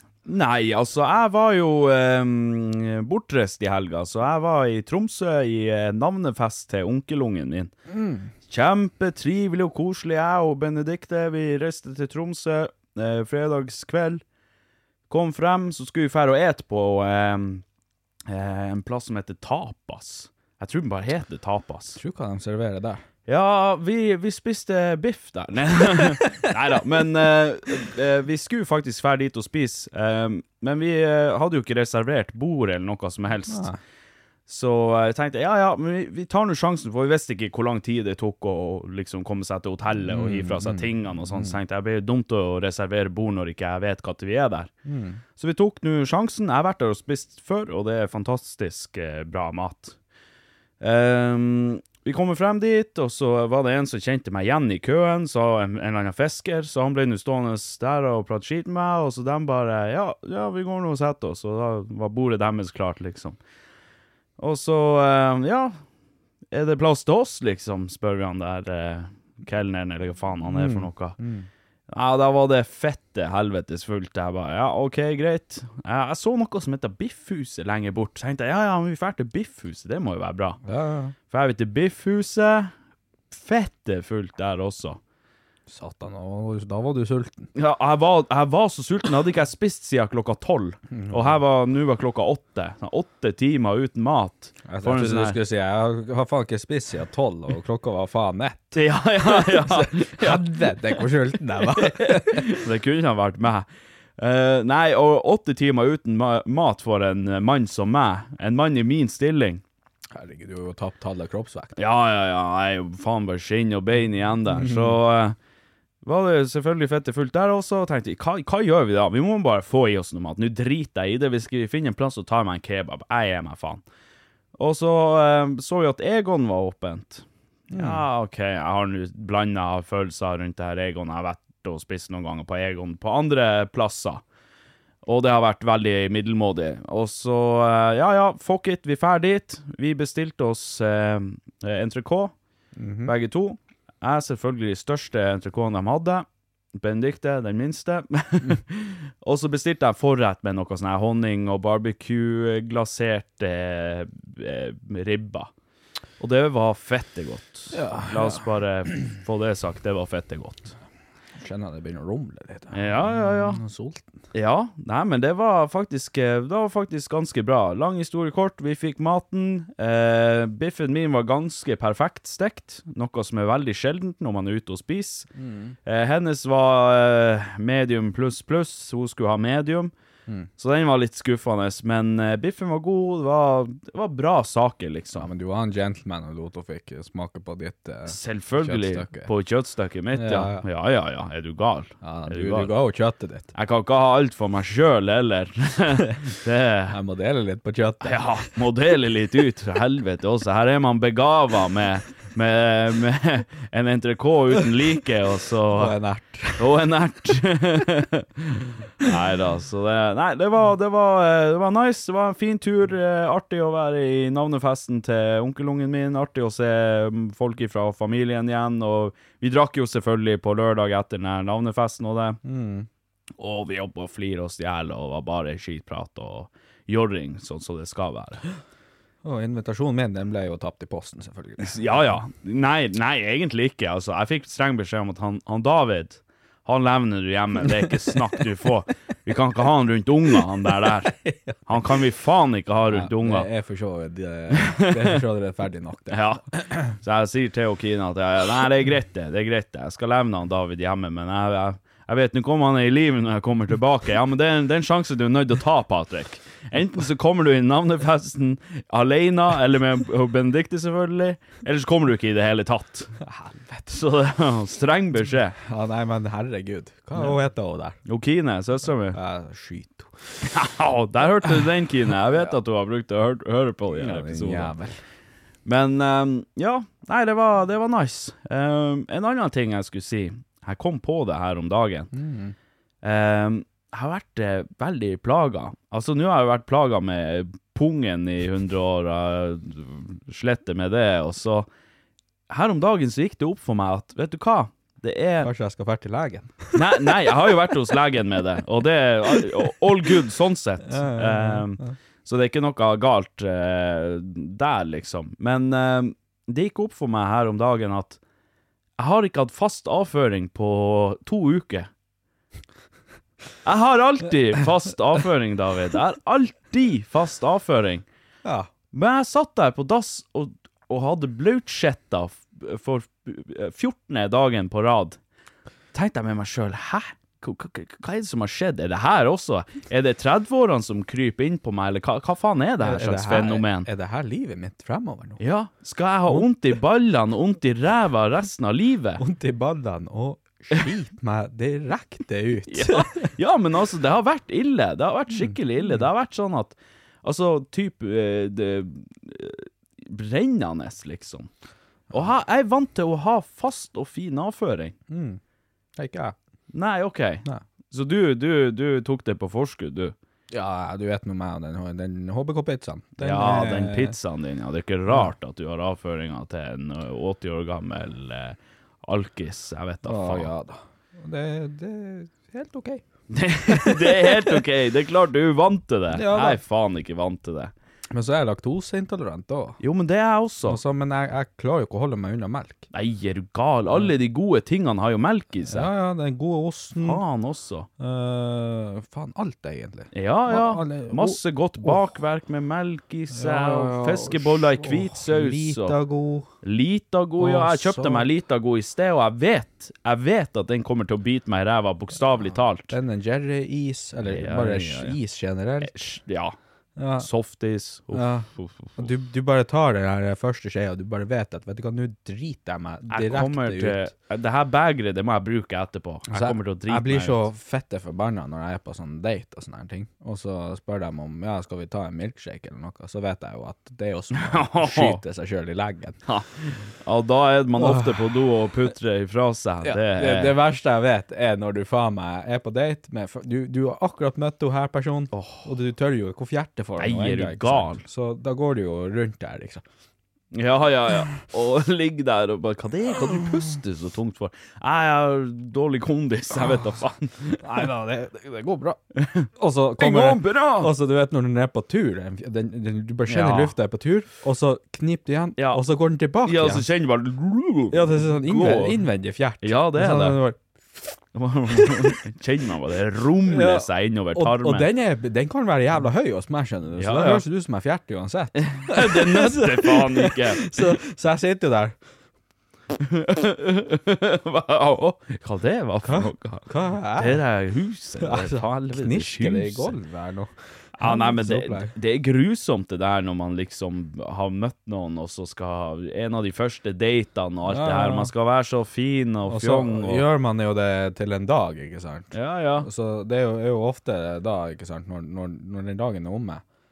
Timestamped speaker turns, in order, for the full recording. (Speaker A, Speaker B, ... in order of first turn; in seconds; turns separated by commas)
Speaker A: 0.2-7.7, Speaker B: 7.9-8.3, Speaker A: 8.5-14.2, Speaker A: 15.1-17.6, Speaker A: 18.3-22.0, Speaker B: 21.9-23.0, Speaker A: 23.3-33.7, Speaker B: 26.0-26.2, Speaker B: 33.5-33.8, Speaker A: 34.5-44.7, Speaker B: 40.1-41.6, Speaker B: 44.9-45.2, Speaker A: 45.4-50.0, Speaker A: 50.8-63.4, Speaker A: 64.4-65.8, Speaker A: 66.5-71.2, Speaker B: 70.5-71.5, Speaker A: 71.9-80.6, Speaker B: 80.6-81.1, Speaker A: 81.3-82.7, Speaker A: 83.3-85.0, Speaker B: 85.7-87.5, Speaker A: 87.5-95.4, Speaker B: 90.9-91.4, Speaker B: 94.7-102.6, Speaker A: 98.7-101.0, Speaker A: 101.7-103.7, Speaker A: 104.2-109.6, Speaker B: 110.1-111.8, Speaker A: 111.8-115.3, Speaker B: 114.5-115.0, Speaker A: 116.0-123.8, Speaker A: 124.6-134.2, Speaker B: 127.7-128.0, Speaker A: 135.0-142.3, Speaker B: 142.8-143.1, Speaker A: 143.0-155.5, Speaker A: 156.2-160.7, Speaker B: 157.7-158.4, Speaker B: 161.4-164.2, Speaker A: 162.7-163.6, Speaker A: 164.3-175.3, Speaker B: 175.4-175.8, Speaker A: 175.8-179.9, Speaker A: 180.6-185.3, Speaker B: 185.1-189.3, Speaker A: 188.1-192.7, Speaker B: 190.1-190.7, Speaker B: 192.0-193.5, Speaker A: 193.5-197.0, Speaker B: 196.9-198.2, Speaker A: 198.0-205.9, Speaker B: 205.7-206.7, Speaker A: 206.6-222.4, Speaker B: 222.4-222.9, Speaker A: 223.4-228.4, Speaker B: 229.2-232.1, Speaker A: 231.6-243.5, Speaker B: 237.6-238.5, Speaker B: 240.3-241.9, Speaker B: 242.9-246.9, Speaker A: 244.5-245.2, Speaker A: 246.1-263.1, Speaker B: 263.2-263.9, Speaker A: 263.9-265.6, Speaker B: 265.6-268.0, Speaker A: 268.1-269.2, Speaker B: 269.1-270.1, Speaker A: 270.4-274.7, Speaker B: 273.9-275.0, Speaker A: 275.6-282.1, Speaker B: 282.1-282.5, Speaker A: 283.0-291.7, Speaker A: 292.5-295.5, Speaker B: 295.4-297.7, Speaker A: 296.7-308.2, Speaker B: 300.9-301.9, Speaker A: 309.0-311.9, Speaker A: 313.6-318.0, Speaker B: 318.4-318.7, Speaker A: 318.9-325.2, Speaker A: 325.9-333.9, Speaker B: 332.8-335.4, Speaker A: 335.4-339.2, Speaker B: 339.2-343.1, Speaker A: 342.7-351.5, Speaker B: 345.3-346.1, Speaker A: 352.1-354.9, Speaker B: 355.1-355.4, Speaker B: 355.9-356.4, Speaker A: 356.7-360.1, Speaker B: 360.5-364.1, Speaker A: 363.2-370.5, Speaker B: 370.0-373.0, Speaker A: 373.3-377.7, Speaker B: 373.6-374.6, Speaker B: 376.1-376.6, Speaker B: 378.1-379.8, Speaker A: 379.8-380.8, Speaker B: 380.6-382.9, Speaker A: 382.9-385.9, Speaker B: 385.7-387.2, Speaker A: 387.0-387.9, Speaker B: 388.0-392.0, Speaker A: 390.1-396.0, Speaker B: 393.3-396.5, Speaker A: 396.6-402.9, Speaker B: 397.4-398.3, Speaker B: 402.9-406.0, Speaker A: 404.2-405.2, Speaker A: 405.8-406.6, Speaker B: 407.0-407.3, Speaker A: 407.2-409.1, Speaker B: 408.1-414.0, Speaker A: 413.1-417.4, Speaker B: 416.3-426.2, Speaker A: 424.4-425.2, Speaker A: 426.3-430.6, Speaker B: 427.8-428.5, Speaker B: 429.8-439.8, Speaker A: 435.3-435.7, Speaker A: 437.0-438.0, Speaker A: 440.5-447.7, Speaker B: 447.6-449.0, Speaker A: 449.2-450.9, Speaker B: 449.6-456.9, Speaker A: 453.3-453.7, Speaker A: 456.4-459.0, Speaker B: 457.9-460.6, Speaker A: 459.6-460.4, Speaker A: 461.3-464.9, Speaker B: 461.7-462.1, Speaker B: 463.5-471.9, Speaker A: 467.0-467.4, Speaker A: 468.6-470.8, Speaker A: 472.9-480.0, Speaker B: 476.0-477.4, Speaker B: 478.2-481.9, Speaker A: 481.0-490.2, Speaker B: 487.7-488.3, Speaker B: 489.5-496.6, Speaker A: 492.3-492.9